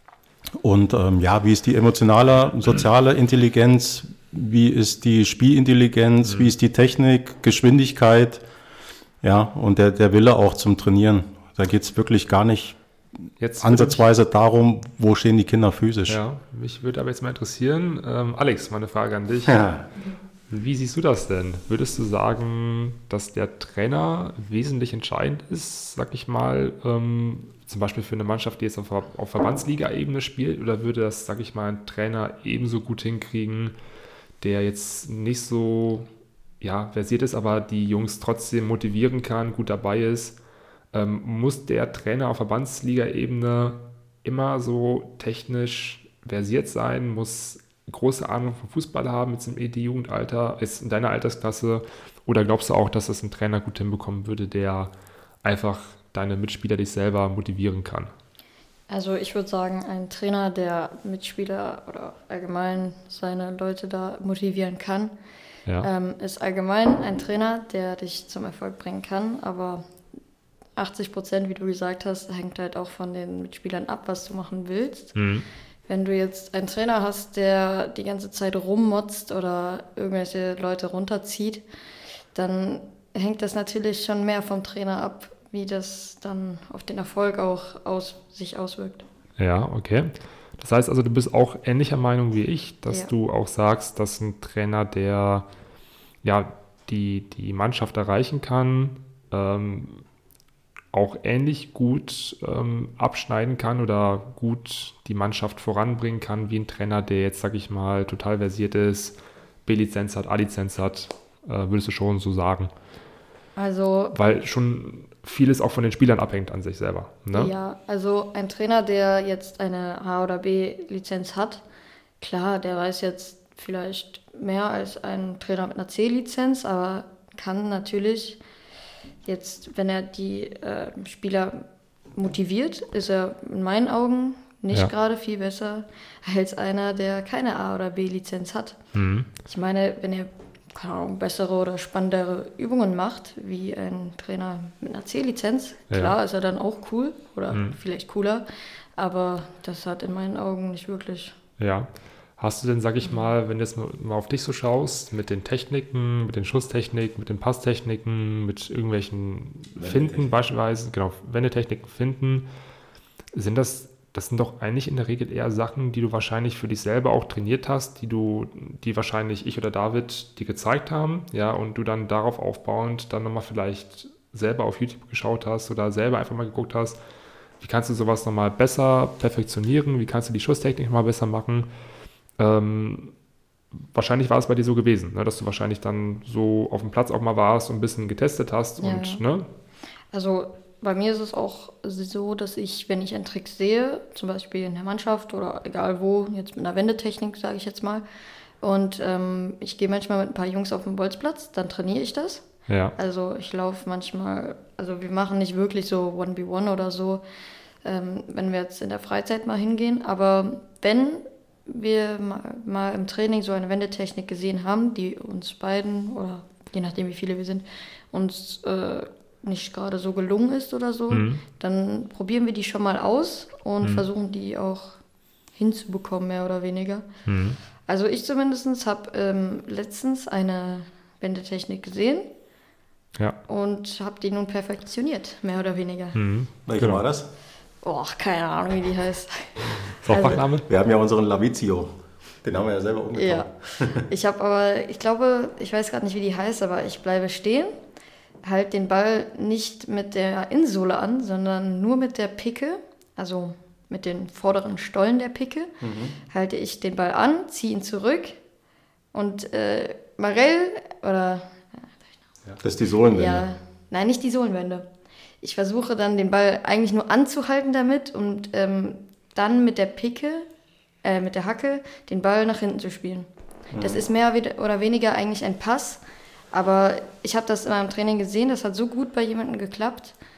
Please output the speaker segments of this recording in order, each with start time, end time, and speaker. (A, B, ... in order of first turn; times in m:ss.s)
0:00.6-0:08.4 A
0:06.2-0:06.5 B
0:09.2-0:12.8 A
0:13.4-0:14.0 B
0:13.6-0:16.2 A
0:16.1-0:19.7 B
0:19.5-0:19.8 A
0:20.5-0:33.8 B
0:34.4-0:36.1 B
0:36.6-0:40.4 B
0:40.9-0:54.9 B
0:55.4-0:58.1 B
0:58.9-1:05.2 C
1:05.8-1:09.9 C
1:10.8-1:15.2 C
1:15.2-1:15.4 B
1:15.9-1:21.6 C
1:22.3-1:29.0 C
1:29.4-1:35.5 B
1:36.2-1:40.0 B
1:40.9-1:52.7 B
1:53.6-1:54.2 C
1:54.1-1:57.5 B
1:57.3-2:01.6 C
2:02.2-2:08.4 C
2:09.2-2:18.8 C
2:19.0-2:19.3 B
2:19.4-2:28.4 C
2:25.9-2:26.2 B
2:27.5-2:27.8 B
2:29.0-2:31.4 C
2:31.6-2:42.5 B
2:39.8-2:40.3 A
2:43.3-2:57.0 B
2:57.6-3:01.7 B
3:02.4-3:03.1 B
3:03.9-3:09.5 B
3:08.8-3:09.2 C
3:10.1-3:18.0 C
3:18.6-3:27.2 C
3:22.7-3:23.0 B
3:27.8-3:45.0 C
3:41.1-3:41.4 B
3:45.6-3:47.1 C
3:47.3-3:47.6 B
3:47.9-3:52.3 C
3:53.5-3:56.2 C
3:56.2-3:57.0 B
3:56.7-3:57.3 A
3:57.8-4:00.5 C
3:59.8-4:00.7 B
4:00.2-4:04.1 A
4:03.1-4:07.7 C
4:08.4-4:15.7 C
4:15.8-4:16.2 A
4:16.3-4:18.4 C
4:19.1-4:21.9 C
4:22.6-4:23.5 A
4:23.0-4:24.9 C
4:25.4-4:30.5 C
4:31.0-4:36.0 C
4:33.7-4:34.0 A
4:36.5-4:40.2 C